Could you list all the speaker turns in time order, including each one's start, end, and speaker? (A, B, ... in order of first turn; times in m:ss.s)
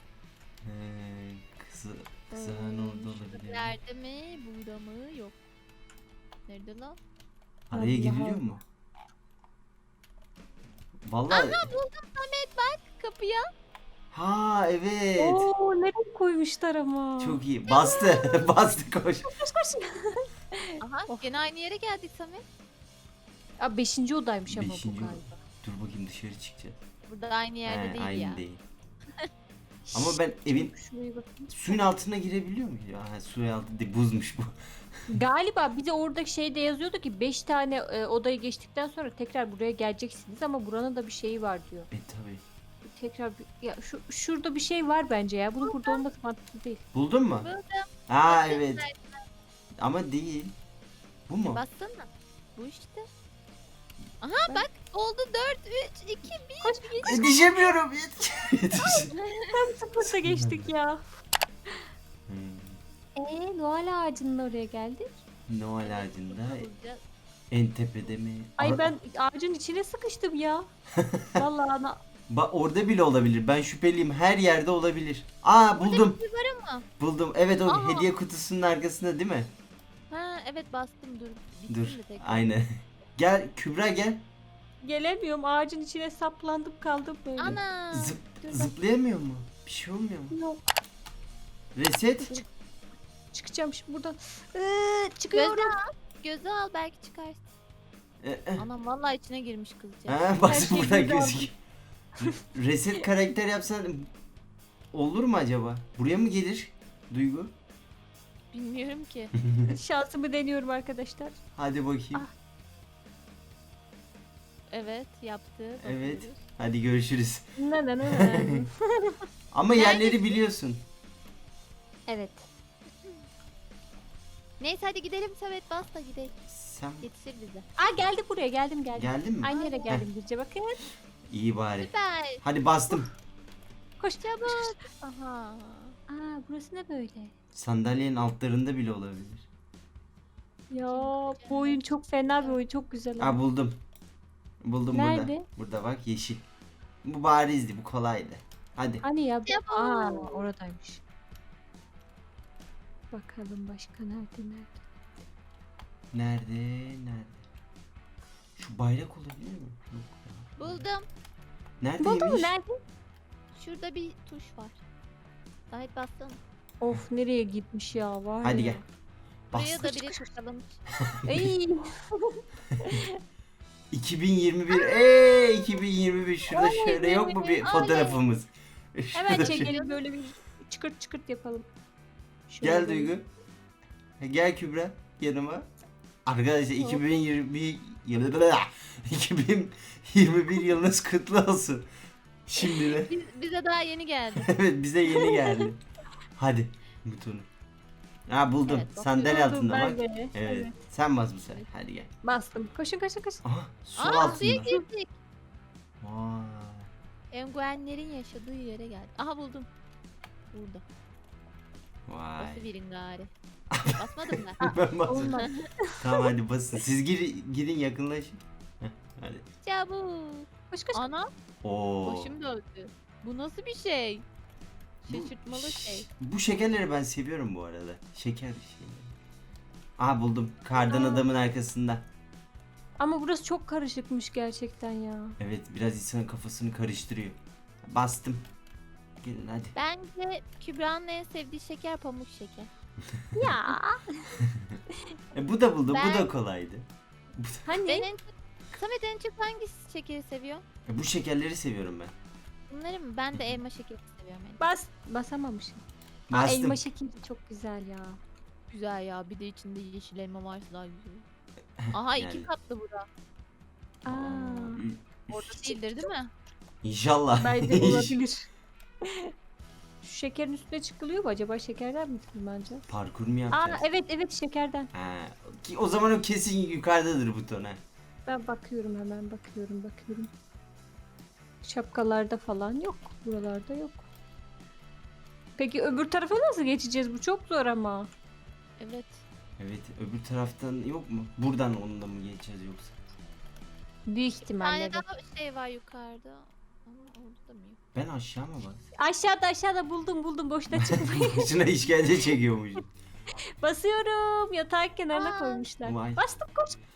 0:00.6-0:03.8 A
0:02.3-0:05.4 B
0:06.5-0:07.0 B
0:07.7-0:08.6 A
0:07.7-0:08.6 C
0:11.0-0:11.7 A
0:11.3-0:13.5 B
0:14.1-0:15.5 A
0:15.2-0:17.4 C
0:17.2-0:19.3 A
0:17.7-0:18.4 B
0:19.3-0:21.2 C
0:20.8-0:22.4 B
0:23.6-0:25.4 C
0:24.5-0:26.8 A
0:27.1-0:28.4 B
0:27.7-0:28.6 A
0:29.9-0:31.8 C
0:29.9-0:30.7 A
0:31.5-0:34.5 A
0:35.1-0:41.9 C
0:41.9-0:42.4 A
0:42.8-0:46.8 C
0:45.6-0:46.0 B
0:46.9-0:47.5 A
0:47.4-0:49.2 B
0:48.1-0:48.9 A
0:49.8-0:50.6 A
0:51.3-0:51.6 A
0:51.5-0:53.1 B
0:54.2-0:57.1 B
0:56.6-0:57.4 C
0:57.0-0:59.1 A
0:59.5-1:01.2 C
1:00.0-1:00.7 A
1:02.3-1:02.8 A
1:03.2-1:05.1 C
1:05.5-1:06.7 A
1:05.8-1:07.0 B
1:07.5-1:08.9 A
1:08.6-1:10.7 C
1:11.0-1:11.4 A
1:11.4-1:12.0 C
1:12.3-1:16.2 A
1:15.8-1:16.8 B
1:17.0-1:19.5 A
1:17.7-1:18.1 B
1:20.1-1:22.5 B
1:21.7-1:24.2 A
1:24.8-1:27.6 C
1:27.4-1:28.2 B
1:27.4-1:30.4 A
1:28.4-1:28.7 C
1:30.3-1:30.6 C
1:31.8-1:32.4 A
1:33.3-1:35.8 C
1:35.3-1:37.5 B
1:38.2-1:38.7 A
1:38.6-1:40.3 B
1:40.1-1:41.6 A
1:40.5-1:41.5 C
1:42.2-1:44.1 A
1:44.9-1:47.5 A
1:48.5-1:49.3 B
1:49.4-1:49.7 A
1:49.7-1:51.4 C
1:51.6-1:52.3 A
1:54.7-1:56.4 B
1:55.8-1:57.5 A
1:57.6-1:59.2 C
1:58.0-1:58.7 A
1:59.5-2:00.8 A
1:59.7-2:00.4 B
2:02.1-2:02.5 C
2:04.6-2:06.4 B
2:06.5-2:07.1 A
2:07.0-2:07.7 B
2:07.8-2:10.8 C
2:09.0-2:10.1 A
2:09.5-2:10.0 B
2:11.3-2:13.1 A
2:11.8-2:12.4 B
2:14.0-2:14.8 C
2:14.2-2:16.0 B
2:16.1-2:17.3 C
2:17.5-2:19.5 A
2:20.7-2:23.4 C
2:20.8-2:22.6 B
2:23.2-2:23.8 A
2:24.6-2:26.4 A
2:24.9-2:25.5 C
2:27.0-2:29.0 A
2:29.0-2:31.0 C
2:29.5-2:30.4 B
2:33.1-2:34.8 C
2:36.1-2:37.4 A
2:38.6-2:40.9 A
2:40.6-2:41.1 B
2:41.8-2:42.5 A
2:42.0-2:42.8 C
2:43.6-2:44.8 B
2:45.7-2:46.4 B
2:46.8-2:48.8 C
2:48.4-2:48.8 A
2:49.5-2:50.0 A
2:49.5-2:50.8 B
2:49.8-2:50.2 C
2:51.1-2:51.4 A
2:51.3-2:53.0 C
2:53.9-2:59.7 A
2:54.7-2:55.8 B
2:56.5-2:58.2 B
2:59.1-3:01.7 C
2:59.3-3:00.0 B
3:02.5-3:03.2 C
3:02.6-3:03.3 A
3:04.2-3:05.7 A
3:06.3-3:11.9 A
3:06.8-3:07.0 B
3:12.5-3:13.1 A
3:12.7-3:14.5 B
3:14.4-3:15.8 A
3:15.1-3:15.7 C
3:16.4-3:17.5 A
3:18.3-3:22.1 A
3:18.6-3:19.4 B
3:19.2-3:20.8 C
3:22.2-3:23.4 C
3:23.4-3:24.7 A
3:24.0-3:25.1 B
3:24.2-3:24.8 C
3:26.0-3:26.9 A
3:27.3-3:29.7 B
3:30.5-3:30.8 B
3:32.1-3:32.7 A
3:32.4-3:33.3 B
3:33.7-3:35.5 A
3:33.9-3:34.6 B
3:34.6-3:36.3 C
3:36.0-3:39.5 A
3:39.6-3:41.3 B
3:40.7-3:41.1 C
3:41.6-3:42.3 A
3:42.0-3:44.2 B
3:45.1-3:46.1 B
3:45.1-3:49.2 A
3:50.0-3:52.0 A
3:50.8-3:51.2 C
3:53.0-3:55.4 C
3:55.4-3:58.4 A
3:59.2-3:59.7 A
3:59.8-4:02.7 B
4:03.4-4:04.3 C
4:04.5-4:04.8 A
4:05.3-4:07.8 A
4:05.9-4:06.3 B
4:07.7-4:08.1 C
4:07.8-4:10.6 B
4:10.9-4:12.1 A
4:12.7-4:14.6 B
4:13.3-4:13.6 A
4:14.6-4:18.2 C
4:16.3-4:16.8 A
4:18.7-4:21.2 B
4:21.8-4:22.5 A
4:21.9-4:23.1 B
4:24.1-4:24.8 C
4:24.1-4:25.5 A
4:25.3-4:26.3 B
4:26.8-4:28.2 A
4:27.4-4:28.5 C
4:29.0-4:29.3 C
4:30.0-4:32.9 C
4:32.9-4:33.9 A
4:33.5-4:34.9 C
4:34.9-4:37.8 A
4:38.3-4:40.3 C
4:41.6-4:44.1 C
4:45.6-4:48.1 C
4:48.8-4:49.2 B
4:49.6-4:53.0 A
4:54.1-4:55.0 C
4:54.5-4:57.8 B
4:57.9-4:58.9 A
4:59.0-5:01.5 C
5:00.7-5:02.8 A
5:03.6-5:06.8 C
5:05.1-5:05.7 B
5:05.8-5:06.2 A